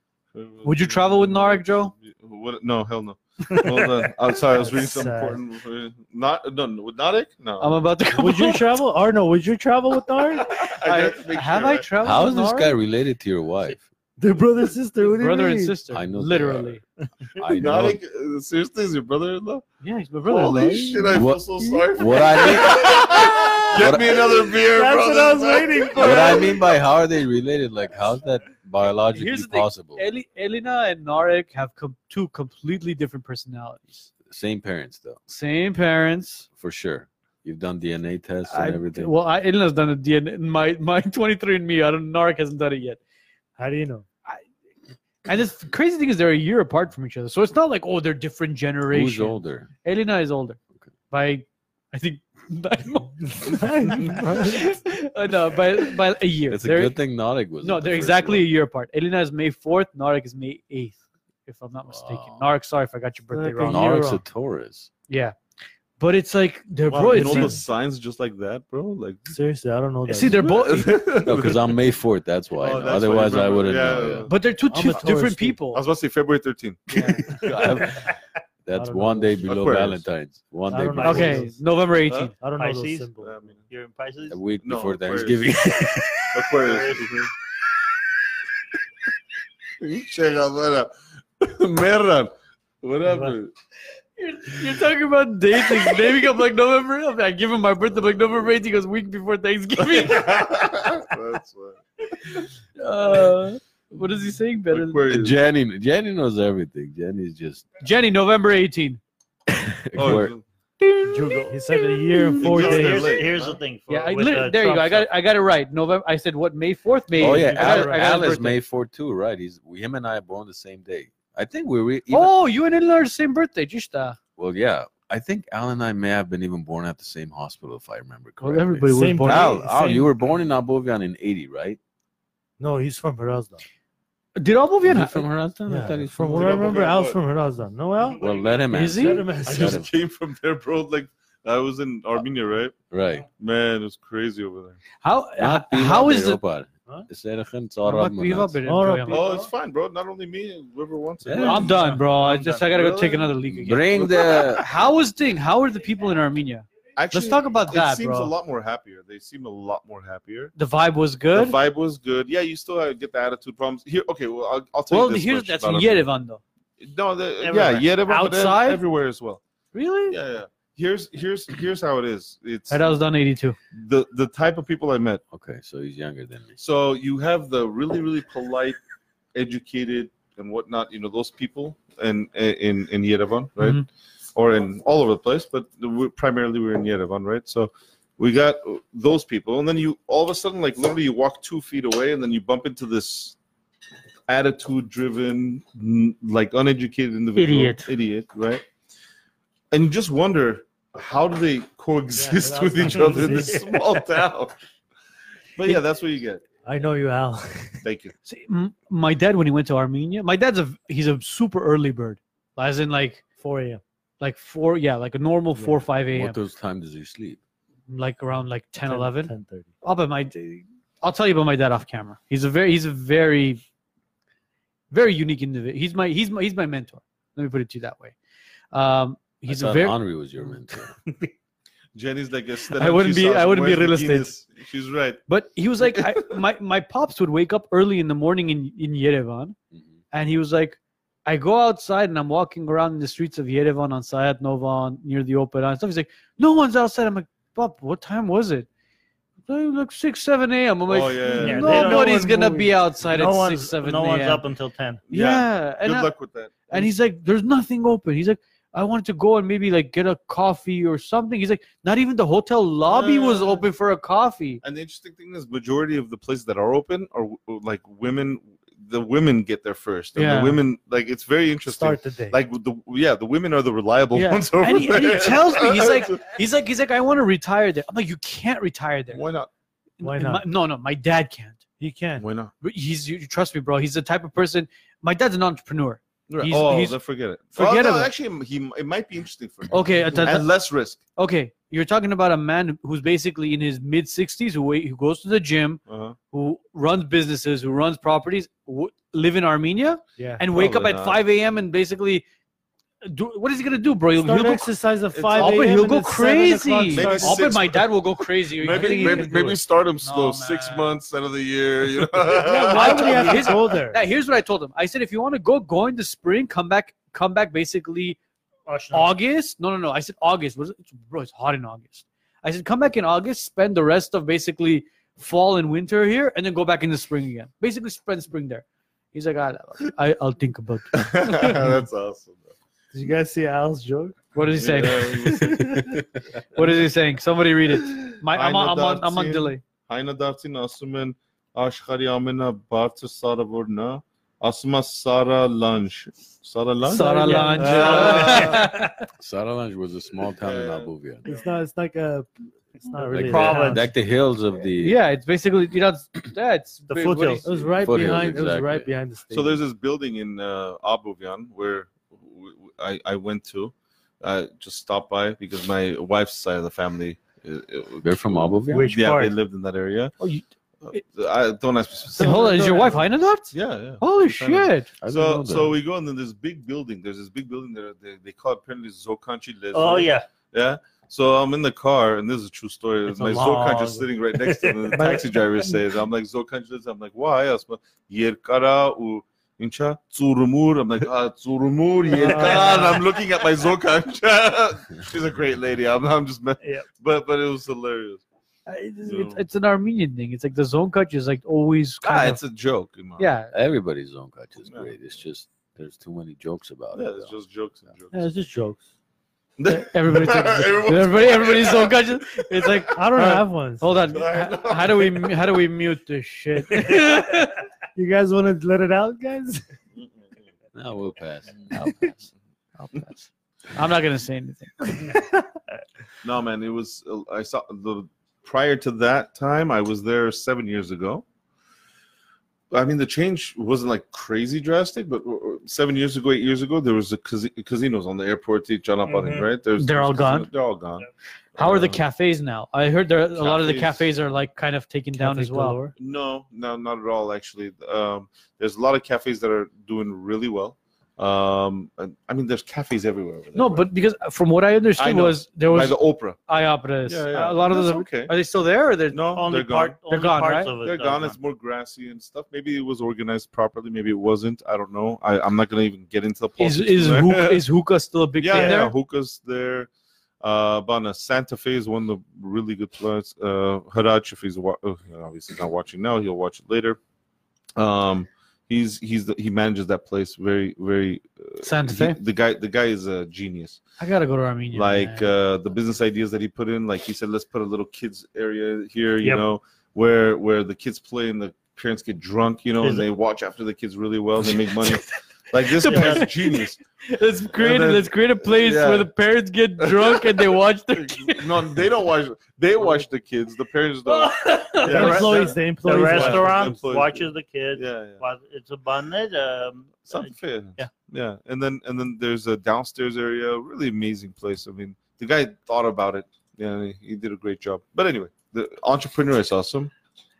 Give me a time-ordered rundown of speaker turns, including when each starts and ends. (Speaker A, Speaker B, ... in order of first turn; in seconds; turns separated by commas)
Speaker A: 0.3-7.8, Speaker B: 0.6-1.9, Speaker C: 4.5-5.4, Speaker B: 7.6-8.8, Speaker C: 8.1-10.6, Speaker A: 10.6-11.9, Speaker B: 10.7-12.8, Speaker D: 12.0-13.8, Speaker C: 14.2-15.8, Speaker B: 15.0-16.8, Speaker D: 15.9-16.8, Speaker D: 17.4-18.0, Speaker A: 17.5-19.6, Speaker B: 19.8-21.2, Speaker A: 20.3-26.6, Speaker D: 21.1-24.4, Speaker C: 24.4-26.6, Speaker D: 26.0-30.0, Speaker B: 29.1-34.1, Speaker D: 34.2-35.2, Speaker B: 35.3-36.5, Speaker D: 36.5-39.1, Speaker B: 38.5-43.0, Speaker C: 43.6-44.1, Speaker B: 45.2-50.6, Speaker D: 48.9-49.7, Speaker B: 51.1-57.0, Speaker C: 53.4-54.7, Speaker D: 56.5-58.5, Speaker B: 57.6-64.1, Speaker D: 61.9-62.5, Speaker C: 63.3-64.2, Speaker D: 63.7-64.9, Speaker B: 65.1-65.3, Speaker B: 66.0-67.6, Speaker A: 66.9-69.3, Speaker C: 67.1-67.6, Speaker C: 69.3-70.5, Speaker B: 70.1-71.2, Speaker A: 70.3-71.8, Speaker D: 71.2-74.3, Speaker A: 72.6-74.4, Speaker B: 74.2-75.8, Speaker C: 74.7-75.6, Speaker A: 75.7-78.0, Speaker B: 76.9-77.3, Speaker D: 77.4-78.1, Speaker D: 78.7-81.5, Speaker C: 78.8-79.5, Speaker A: 79.5-80.0, Speaker C: 80.7-81.5, Speaker B: 81.0-82.3, Speaker A: 82.1-82.3, Speaker C: 82.4-83.3, Speaker E: 82.5-83.1, Speaker A: 83.2-83.6, Speaker E: 83.7-84.4, Speaker D: 84.3-86.4, Speaker A: 84.6-85.5, Speaker A: 86.3-87.3, Speaker E: 86.6-87.1, Speaker A: 89.8-93.5, Speaker E: 93.1-93.3, Speaker B: 94.2-100.6, Speaker A: 99.8-101.8, Speaker B: 102.2-105.0, Speaker A: 104.7-105.4, Speaker D: 105.1-107.7, Speaker B: 107.8-109.0, Speaker D: 109.5-110.3, Speaker A: 110.0-110.5, Speaker B: 110.8-112.4, Speaker C: 111.1-113.2, Speaker E: 111.2-111.5, Speaker A: 112.4-113.6, Speaker E: 112.4-115.1, Speaker B: 113.9-118.6, Speaker D: 117.2-122.3, Speaker C: 117.2-118.1, Speaker B: 122.1-124.2, Speaker D: 124.4-131.8, Speaker B: 128.4-130.1, Speaker C: 128.9-129.7, Speaker C: 132.6-133.6, Speaker B: 134.4-135.3, Speaker D: 134.8-136.8, Speaker C: 135.7-138.2, Speaker A: 136.3-137.2, Speaker D: 138.2-139.9, Speaker B: 138.7-139.3, Speaker C: 138.9-139.8, Speaker A: 139.4-142.8, Speaker D: 142.9-143.3, Speaker A: 143.4-144.8, Speaker B: 145.0-146.4, Speaker D: 145.4-148.6, Speaker B: 147.8-149.3, Speaker C: 148.6-149.5, Speaker A: 149.1-153.4, Speaker D: 151.2-151.8, Speaker B: 151.4-158.3, Speaker D: 153.5-154.7, Speaker A: 157.0-160.5, Speaker B: 160.6-161.6, Speaker A: 161.3-166.1, Speaker B: 164.9-166.4, Speaker A: 166.8-169.4, Speaker E: 167.4-167.9, Speaker B: 167.9-168.8, Speaker B: 169.7-170.2, Speaker A: 170.1-173.0, Speaker B: 172.7-173.6, Speaker A: 173.7-175.2, Speaker D: 175.3-176.6, Speaker A: 176.6-178.8, Speaker A: 179.3-193.3, Speaker B: 183.6-183.8, Speaker A: 194.3-198.6, Speaker E: 197.4-197.9, Speaker A: 199.7-204.6, Speaker C: 202.1-203.6, Speaker E: 202.8-203.9, Speaker A: 205.6-206.4, Speaker C: 206.6-207.8, Speaker A: 207.8-208.1, Speaker B: 208.3-213.2, Speaker C: 213.4-213.8, Speaker B: 214.2-216.4, Speaker C: 215.6-215.8, Speaker D: 216.1-217.4, Speaker B: 217.9-223.6, Speaker C: 218.8-219.7, Speaker B: 224.9-228.1, Speaker B: 228.7-230.0, Speaker D: 229.5-230.9, Speaker A: 231.9-235.2, Speaker B: 232.7-234.3, Speaker B: 235.3-239.6, Speaker A: 235.8-236.4, Speaker B: 240.1-248.7, Speaker B: 249.5-254.4, Speaker A: 250.9-252.0, Speaker C: 251.3-252.7, Speaker E: 251.4-255.0, Speaker B: 255.1-256.1, Speaker A: 255.1-256.9, Speaker B: 256.7-264.6, Speaker A: 262.9-263.7, Speaker A: 264.6-276.4, Speaker B: 270.2-270.6, Speaker C: 271.7-272.4, Speaker C: 274.1-274.4, Speaker B: 274.6-279.2, Speaker A: 279.1-279.5, Speaker B: 280.0-281.6, Speaker C: 280.0-280.4, Speaker C: 281.8-282.2, Speaker A: 282.2-282.5, Speaker B: 282.6-287.0, Speaker A: 286.3-291.0, Speaker B: 287.5-288.1, Speaker B: 289.7-290.5, Speaker C: 290.0-290.4, Speaker B: 291.1-302.2, Speaker A: 295.9-296.2, Speaker C: 300.2-300.5, Speaker A: 300.5-301.2, Speaker B: 303.0-304.7, Speaker C: 304.2-307.5, Speaker A: 305.1-305.7, Speaker B: 305.3-310.9, Speaker A: 306.9-313.5, Speaker C: 308.6-309.6, Speaker C: 312.4-314.0, Speaker B: 312.6-318.2, Speaker E: 318.7-319.1, Speaker B: 318.9-331.8, Speaker A: 330.9-332.5, Speaker C: 332.9-334.2, Speaker B: 334.4-335.7, Speaker A: 334.5-335.9, Speaker C: 334.8-335.9, Speaker B: 336.5-339.6, Speaker A: 338.0-348.7, Speaker B: 346.8-349.1, Speaker C: 347.2-348.4, Speaker E: 347.7-348.6, Speaker D: 349.2-351.2, Speaker A: 350.4-351.4, Speaker C: 351.2-353.9, Speaker E: 353.1-353.8, Speaker D: 353.1-355.0, Speaker B: 353.3-353.7, Speaker B: 354.8-357.6, Speaker E: 356.9-357.4, Speaker C: 357.4-359.6, Speaker D: 357.8-358.9, Speaker A: 359.3-370.2, Speaker D: 368.0-368.9, Speaker E: 368.7-369.3, Speaker B: 370.2-371.0, Speaker A: 370.8-398.2, Speaker B: 372.1-375.0, Speaker D: 375.0-375.7, Speaker E: 379.7-380.3, Speaker C: 383.1-384.1, Speaker E: 384.4-385.4, Speaker C: 384.9-385.4, Speaker C: 392.1-393.0, Speaker E: 392.2-392.8, Speaker E: 396.6-396.9, Speaker B: 398.7-402.4, Speaker A: 399.1-399.4, Speaker A: 402.0-403.3, Speaker B: 403.2-403.5, Speaker D: 403.5-407.3, Speaker A: 406.9-408.3, Speaker C: 408.1-408.9, Speaker A: 409.6-412.9, Speaker B: 409.6-417.6, Speaker C: 412.9-413.9, Speaker A: 414.0-415.6, Speaker C: 417.9-419.6, Speaker D: 420.7-422.1, Speaker B: 421.8-422.1, Speaker B: 422.8-425.2, Speaker A: 426.2-431.2, Speaker A: 432.7-442.0, Speaker E: 439.1-439.5, Speaker B: 439.8-440.5, Speaker B: 441.6-445.9, Speaker A: 443.4-444.1, Speaker C: 445.1-445.9, Speaker A: 445.9-453.9, Speaker B: 453.6-459.3, Speaker A: 455.0-456.4, Speaker A: 457.1-458.4, Speaker A: 459.1-460.0, Speaker E: 459.3-461.4, Speaker B: 460.1-460.7, Speaker A: 460.8-467.6, Speaker B: 466.6-468.9, Speaker A: 468.4-469.9, Speaker A: 470.4-477.0, Speaker A: 477.8-483.8, Speaker B: 481.6-482.2, Speaker B: 484.0-485.3, Speaker A: 484.7-496.8, Speaker E: 492.8-493.1, Speaker B: 495.7-501.8, Speaker E: 495.8-496.3, Speaker A: 497.5-499.1, Speaker A: 499.8-508.2, Speaker B: 504.1-505.3, Speaker E: 504.9-510.9, Speaker C: 504.9-506.8, Speaker A: 510.1-519.9